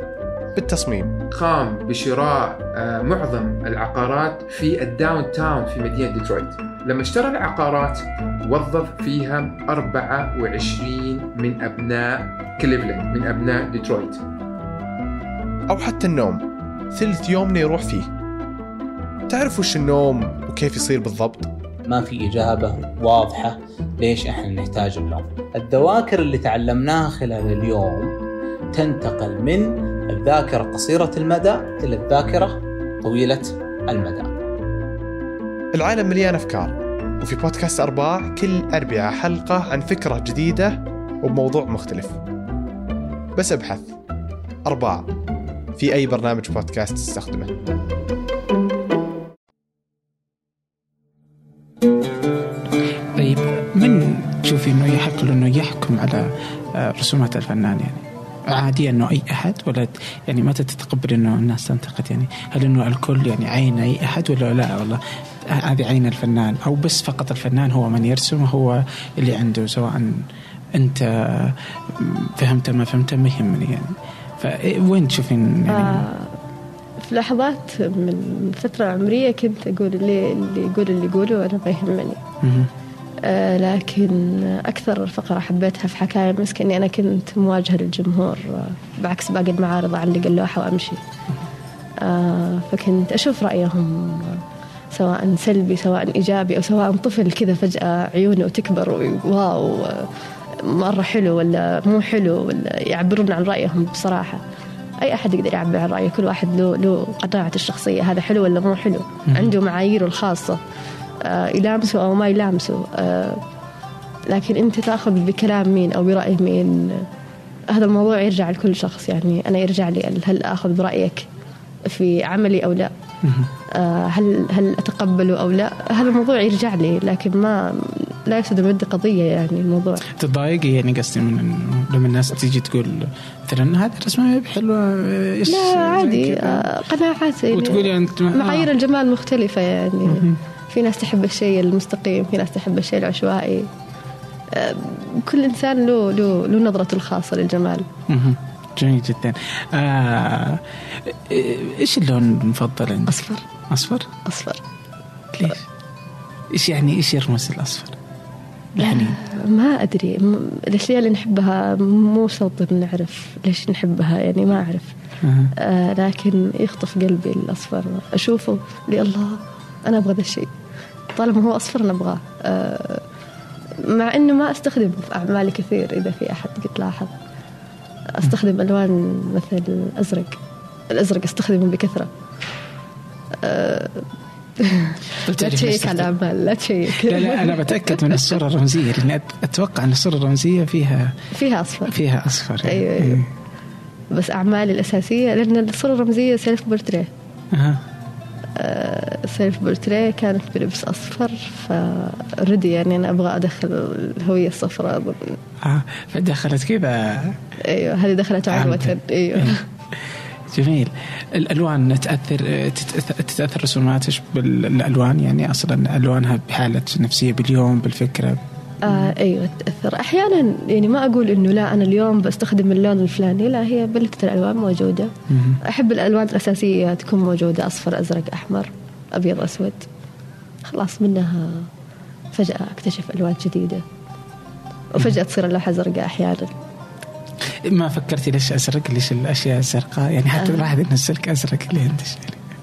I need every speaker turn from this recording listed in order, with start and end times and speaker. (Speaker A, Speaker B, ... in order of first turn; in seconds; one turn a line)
Speaker A: 0.6-1.2
Speaker B: 1.3-14.2
Speaker A: 15.7-18.1
Speaker A: 19.3-21.5
Speaker C: 21.9-28.1
Speaker C: 28.7-34.4
Speaker A: 35.7-42.2
Speaker A: 43.4-44.0
Speaker A: 44.7-45.1
Speaker A: 45.8-47.5
Speaker D: 53.1-70.2
Speaker D: 70.8-76.1
Speaker E: 75.7-76.3
Speaker E: 77.0-82.2
Speaker D: 82.4-82.7
Speaker E: 83.2-91.0
Speaker E: 92.0-100.1
Speaker E: 100.6-104.4
Speaker E: 105.0-110.6
Speaker D: 109.3-109.5
Speaker E: 111.2-113.4
Speaker E: 114.3-117.1
Speaker E: 117.7-121.2
Speaker E: 121.9-122.9
Speaker D: 123.2-123.5
Speaker E: 123.7-130.0
Speaker D: 130.1-136.7
Speaker E: 135.5-143.7
Speaker D: 137.5-138.7
Speaker D: 140.1-140.4
Speaker E: 144.5-147.9
Speaker D: 148.1-154.1
Speaker E: 153.1-153.4
Speaker E: 154.2-154.6
Speaker D: 155.3-155.6
Speaker D: 156.5-158.0
Speaker D: 158.8-159.2
Speaker E: 158.8-164.9
Speaker D: 165.2-165.5
Speaker E: 165.6-170.5
Speaker E: 171.2-173.0
Speaker E: 173.8-177.1
Speaker E: 178.1-180.4
Speaker E: 180.9-182.1
Speaker E: 183.4-184.1
Speaker E: 184.6-188.1
Speaker D: 185.2-186.1
Speaker D: 186.9-191.2
Speaker E: 191.3-192.0
Speaker D: 191.9-193.3
Speaker E: 192.6-193.3
Speaker E: 194.1-197.1
Speaker D: 197.5-197.8
Speaker E: 198.6-205.4
Speaker D: 205.6-207.4
Speaker E: 207.7-209.6
Speaker D: 208.5-209.6
Speaker D: 210.5-219.1
Speaker E: 218.8-229.9
Speaker D: 225.3-225.6
Speaker E: 230.7-231.7
Speaker E: 232.3-233.8
Speaker E: 234.9-236.5
Speaker D: 237.6-242.4
Speaker E: 240.4-240.7